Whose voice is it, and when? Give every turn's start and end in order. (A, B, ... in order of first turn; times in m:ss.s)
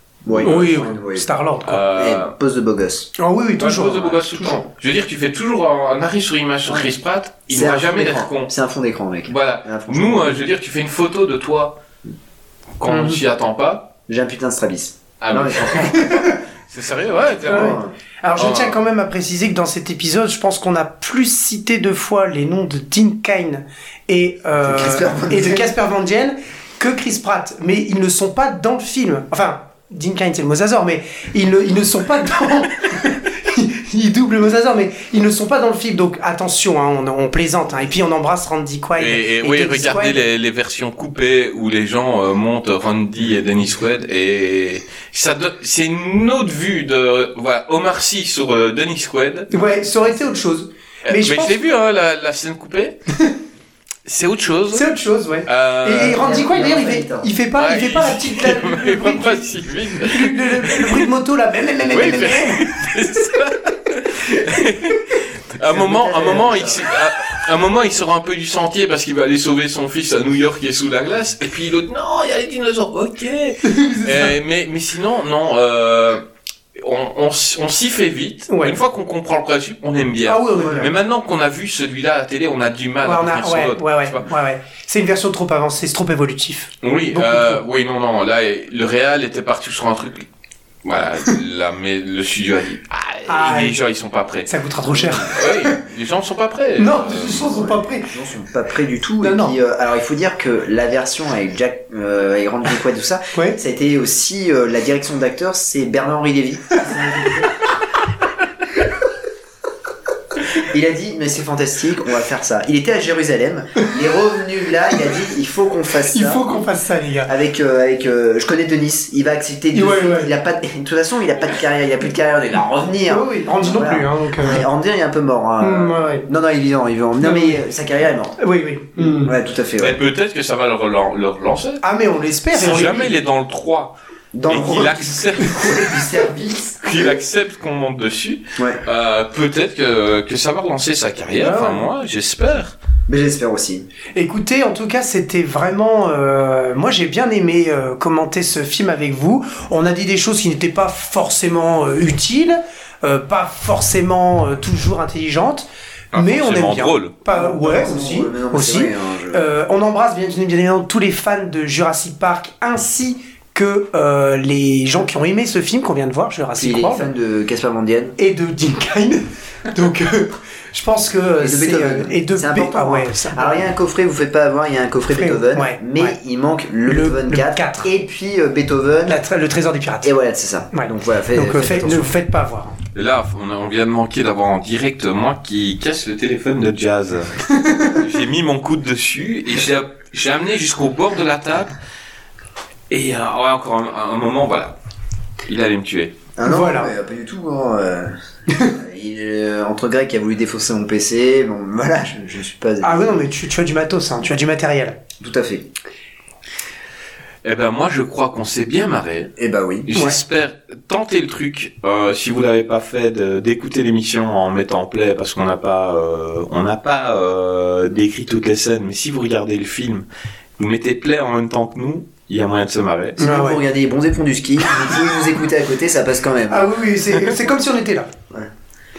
0:00.2-0:01.3 A
0:00.4-0:01.8 B
0:01.6-0:02.3 C
0:01.9-0:03.1 A
0:03.2-0:04.7 B
0:03.6-0:08.5 C
0:06.7-0:06.9 A
0:07.5-0:10.4 A
0:09.3-0:11.8 C
0:12.8-0:13.9 C
0:12.9-0:13.2 B
0:14.1-0:16.0 A
0:15.2-0:17.8 C
0:17.4-0:17.9 A
0:17.5-0:40.2 B
0:18.4-0:18.8 C
0:24.6-0:25.7 A
0:39.0-0:49.5 C
0:49.5-0:51.6 B
0:51.1-0:53.0 C
0:54.1-0:54.9 C
0:54.7-0:59.5 B
0:55.5-0:56.2 C
0:55.9-0:57.3 A
0:57.6-1:01.1 C
1:00.0-1:02.6 B
1:01.9-1:16.2 C
1:05.6-1:06.8 A
1:13.6-1:14.4 B
1:16.8-1:24.2 C
1:18.5-1:18.8 B
1:20.2-1:20.9 B
1:23.0-1:27.6 B
1:26.8-1:30.3 C
1:30.8-1:34.5 C
1:33.3-1:33.8 B
1:34.5-1:35.8 B
1:34.9-1:35.3 A
1:35.4-1:37.5 C
1:36.8-1:38.1 B
1:37.3-1:47.5 A
1:39.2-1:39.6 B
1:43.3-1:43.6 B
1:50.6-1:56.5 A
1:56.1-1:57.3 B
1:57.2-2:08.4 A
1:59.7-2:00.3 B
2:03.1-2:04.6 B
2:05.6-2:06.3 B
2:07.2-2:07.6 B
2:08.4-2:09.3 B
2:09.2-2:10.0 A
2:09.8-2:11.8 C
2:11.8-2:13.1 B
2:12.5-2:14.0 C
2:14.3-2:17.1 A
2:14.5-2:15.6 C
2:16.8-2:22.8 C
2:18.6-2:18.8 A
2:21.4-2:21.9 B
2:23.1-2:23.9 A
2:24.2-2:47.1 B
2:36.1-2:37.1 C
2:37.3-2:39.4 A
2:46.6-2:48.2 A
2:48.2-2:53.7 B
2:51.4-2:59.2 A
2:55.1-2:56.2 B
2:56.9-2:57.9 B
2:59.1-3:00.1 B
3:00.0-3:02.1 A
3:00.7-3:02.8 B
3:03.0-3:11.7 C
3:07.6-3:07.9 B
3:12.9-3:14.8 C
3:15.5-3:16.2 C
3:16.4-3:23.3 A
3:16.4-3:16.9 B
3:22.8-3:25.0 B
3:25.2-3:25.7 A
3:27.4-3:29.3 C
3:29.4-3:29.9 A
3:29.9-3:40.0 C
3:40.6-3:43.2 C
3:43.2-3:46.7 A
3:43.2-3:43.6 B
3:46.5-3:48.1 B